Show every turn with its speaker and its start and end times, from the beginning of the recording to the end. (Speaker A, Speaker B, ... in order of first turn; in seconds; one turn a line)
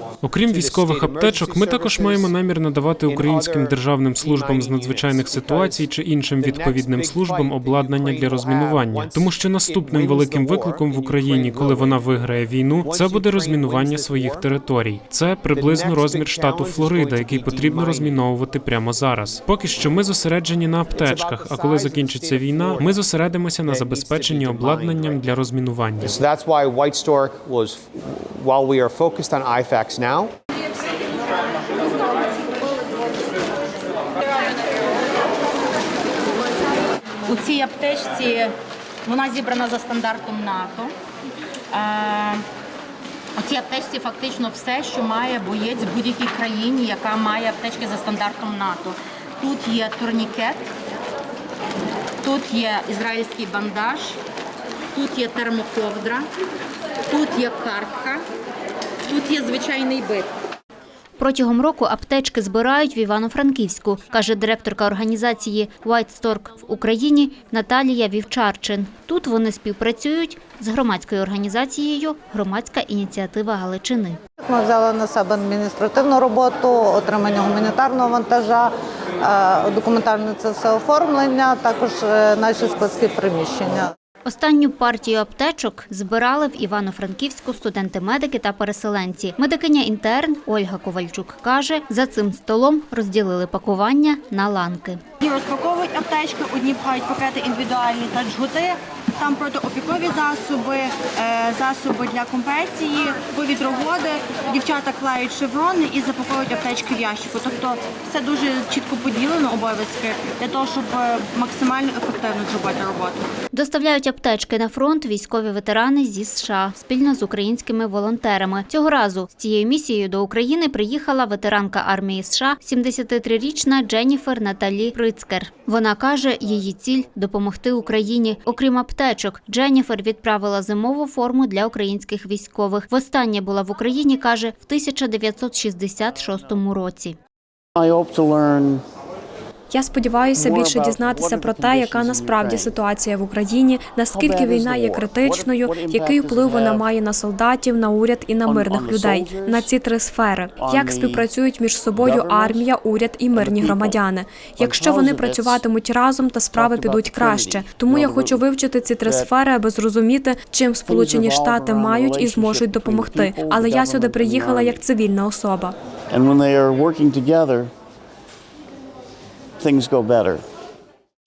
Speaker A: 0.2-26.1
Speaker B: 0.5-2.3
Speaker B: 3.0-12.0
Speaker B: 12.8-14.5
Speaker B: 15.5-18.2
Speaker B: 20.9-23.0
Speaker B: 23.6-25.2
Speaker B: 26.0-30.3
Speaker C: 37.3-38.5
Speaker C: 39.0-40.9
Speaker C: 41.7-42.4
Speaker C: 43.4-50.7
Speaker C: 52.2-54.2
Speaker C: 54.9-56.3
Speaker C: 57.1-58.2
Speaker C: 59.1-60.3
Speaker D: 61.2-74.2
Speaker E: 74.4-83.9
Speaker D: 84.2-95.0
Speaker F: 95.2-113.2
Speaker D: 113.5-137.2
Speaker G: 137.8-138.8
Speaker H: 139.7-165.7
Speaker G: 140.3-142.8
Speaker G: 144.1-146.9
Speaker G: 148.4-149.7
Speaker G: 150.5-151.3
Speaker G: 151.9-152.7
Speaker G: 153.3-154.1
Speaker G: 154.6-155.6
Speaker G: 156.5-158.5
Speaker G: 159.0-159.3
Speaker G: 160.8-164.8
Speaker G: 166.1-167.7
Speaker G: 169.6-170.4